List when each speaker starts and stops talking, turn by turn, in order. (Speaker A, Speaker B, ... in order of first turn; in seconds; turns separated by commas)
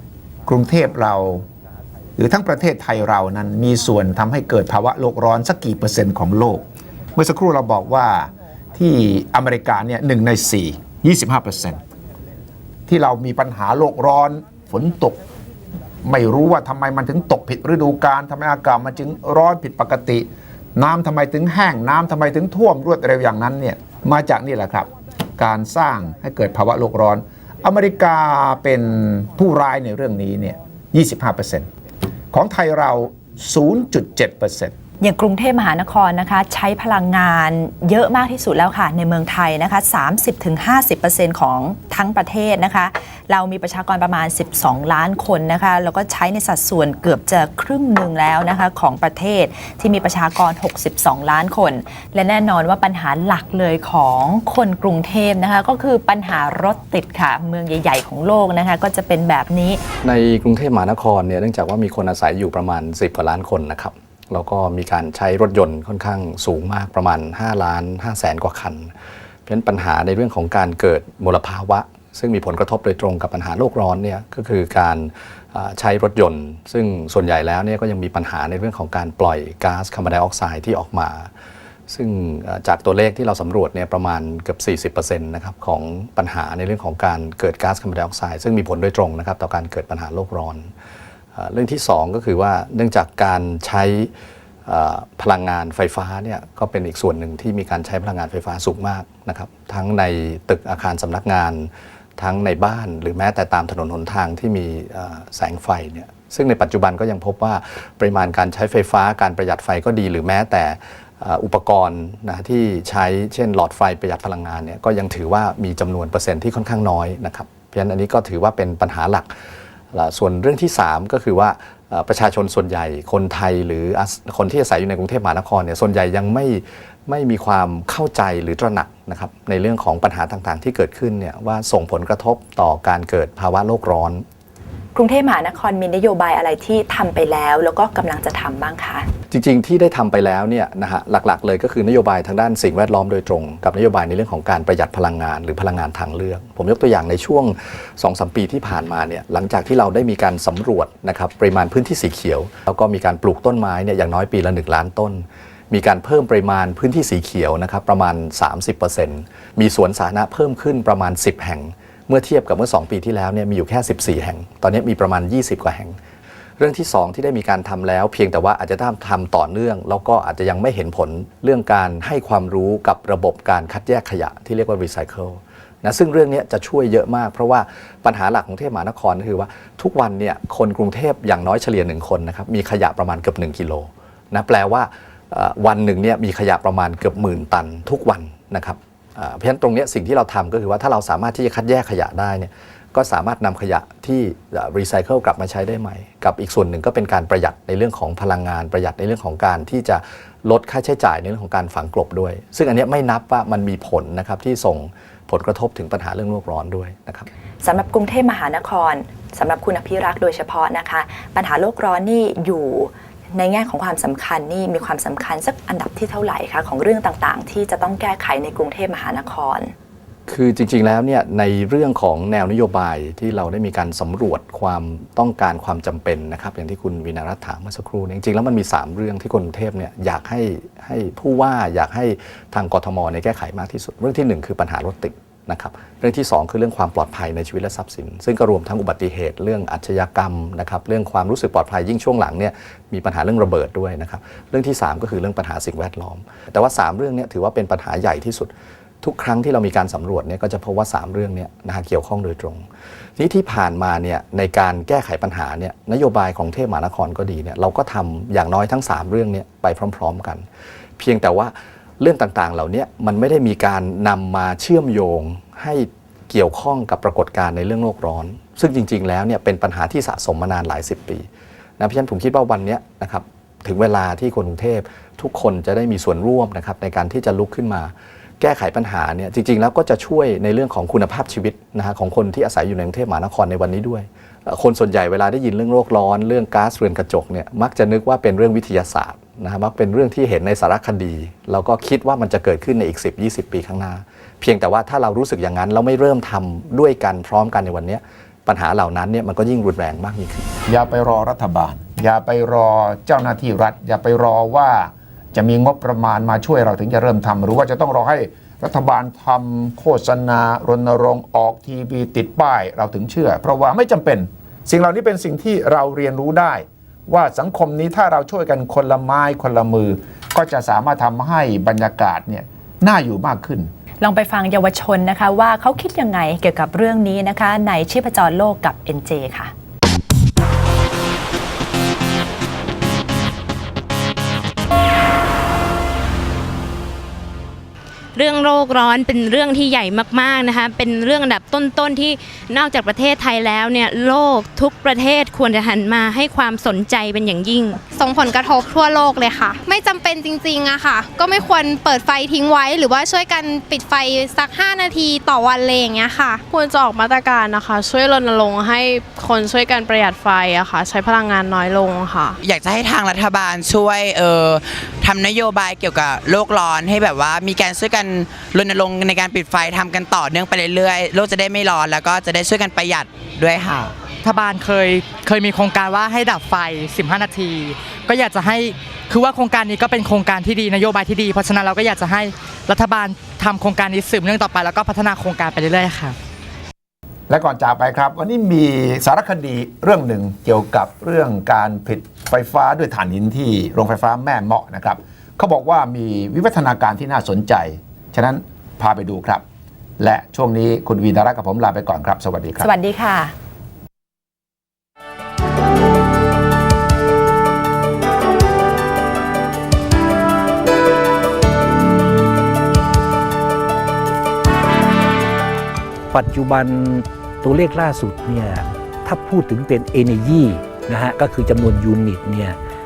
Speaker A: 0.5-1.4, Speaker A: 2.2-6.6, Speaker A: 7.1-11.8, Speaker A: 12.9-15.2, Speaker A: 16.0-31.7, Speaker A: 32.3-34.7, Speaker B: 35.0-59.8, Speaker C: 60.0-68.9, Speaker C: 69.5-81.3, Speaker C: 81.9-90.7, Speaker C: 91.3-94.1, Speaker C: 94.7-119.3, Speaker C: 119.9-134.2, Speaker B: 134.9-139.1, Speaker C: 139.3-166.0, Speaker C: 166.6-207.3, Speaker B: 207.6-219.7, Speaker C: 220.3-252.6, Speaker C: 253.2-260.4, Speaker C: 261.0-271.2, Speaker C: 271.8-300.5, Speaker A: 300.7-323.7, Speaker B: 324.0-329.5, Speaker D: 338.1-347.8, Speaker E: 347.9-356.5, Speaker F: 356.5-362.4, Speaker G: 362.4-373.9, Speaker H: 374.2-386.1, Speaker A: 387.3-399.4, Speaker A: 400.0-402.7, Speaker B: 402.6-403.3, Speaker I: 416.1-422.6